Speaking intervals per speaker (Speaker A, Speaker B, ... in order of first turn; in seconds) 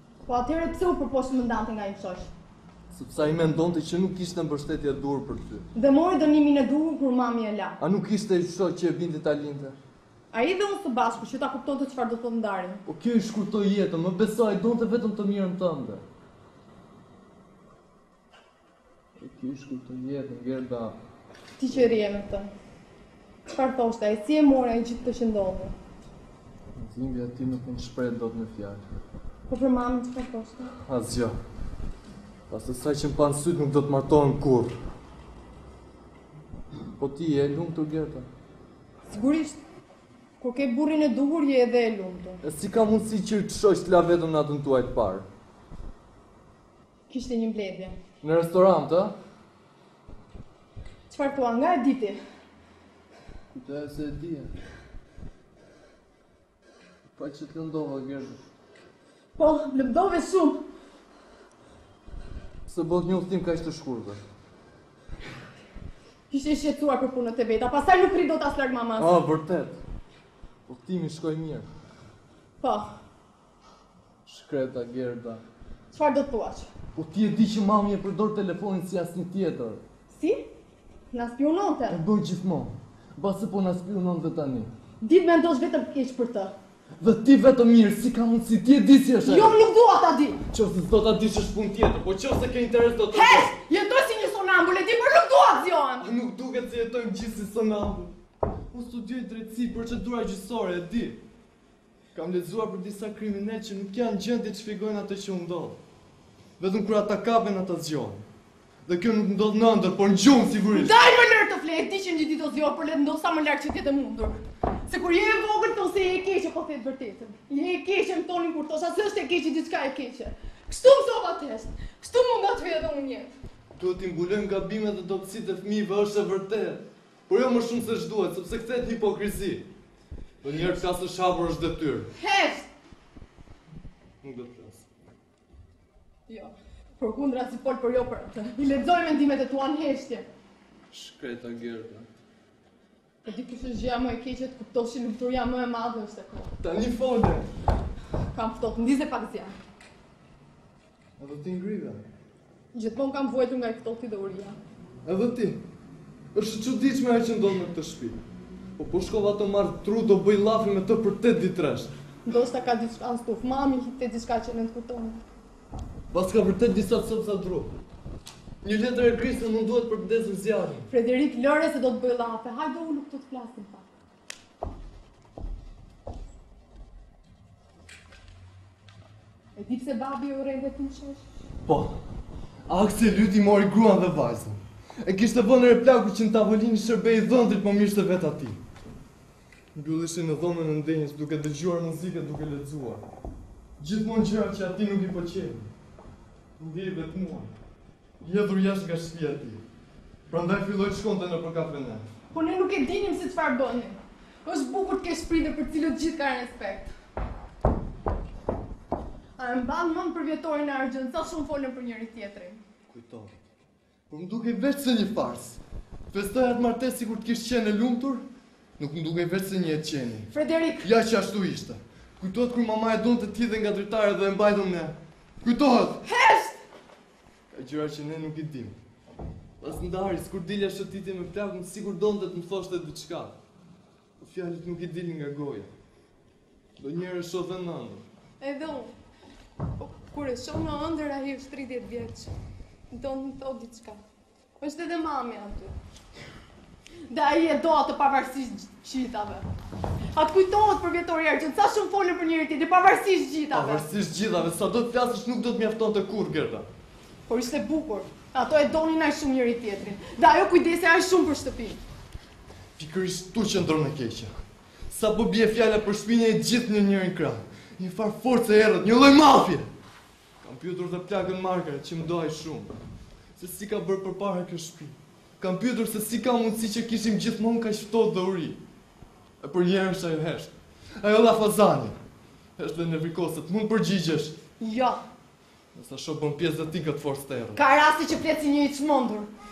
Speaker A: 0.3-2.3, 5.7-7.8, 10.3-12.8, 21.6-22.5, 23.5-25.7, 29.5-30.7, 39.1-39.6, 40.4-42.4, 47.1-48.0, 51.1-52.2, 59.4-60.6, 66.3-69.1, 72.6-73.0, 75.9-76.7, 80.1-80.4, 81.1-82.0, 85.0-86.5, 89.2-90.4, 93.1-96.1, 110.7-123.3, 132.1-132.7, 136.3-140.3, 143.2-146.5, 148.3-149.5, 152.7-154.6, 162.2-165.2, 170.9-173.9, 179.6-181.2, 202.3-206.9, 209.4-212.6, 220.3-220.9, 226.0-226.6, 238.4-238.9, 239.8-242.3, 242.9-244.0, 244.6-245.7, 247.1-249.4, 250.1-253.8, 257.3-261.8, 284.6-285.0, 287.6-289.3
Speaker B: 2.9-5.7, 7.8-9.8, 12.9-16.0, 19.2-21.0, 26.8-28.8, 30.9-31.4, 32.5-34.8, 37.0-38.3, 42.4-45.2, 48.2-49.1, 53.5-54.5, 57.1-58.4, 62.7-64.2, 69.0-69.8, 70.7-71.7, 74.2-75.4, 76.9-79.8, 81.9-84.7, 87.0-89.6, 90.5-93.5, 96.0-98.1, 98.7-101.2, 102.1-105.8, 106.6-108.2, 108.9-110.9, 123.8-129.7, 130.4-132.1, 134.2-134.8, 140.9-142.1, 146.6-147.5, 151.2-152.0, 155.0-155.6, 156.3-158.2, 158.8-161.9, 166.1-167.7, 168.6-170.9, 181.7-181.9, 182.7-188.6, 189.7-193.0, 193.8-195.7, 196.6-197.5, 198.2-199.6, 200.3-202.0, 212.9-213.3, 214.1-215.6, 216.1-218.2, 218.8-220.3, 220.8-226.0, 227.5-228.8, 229.6-233.3, 234.2-235.7, 236.8-238.0, 253.5-256.7, 262.8-269.7, 270.4-272.7, 273.4-278.6, 279.4-282.0, 282.6-284.4, 285.7-287.6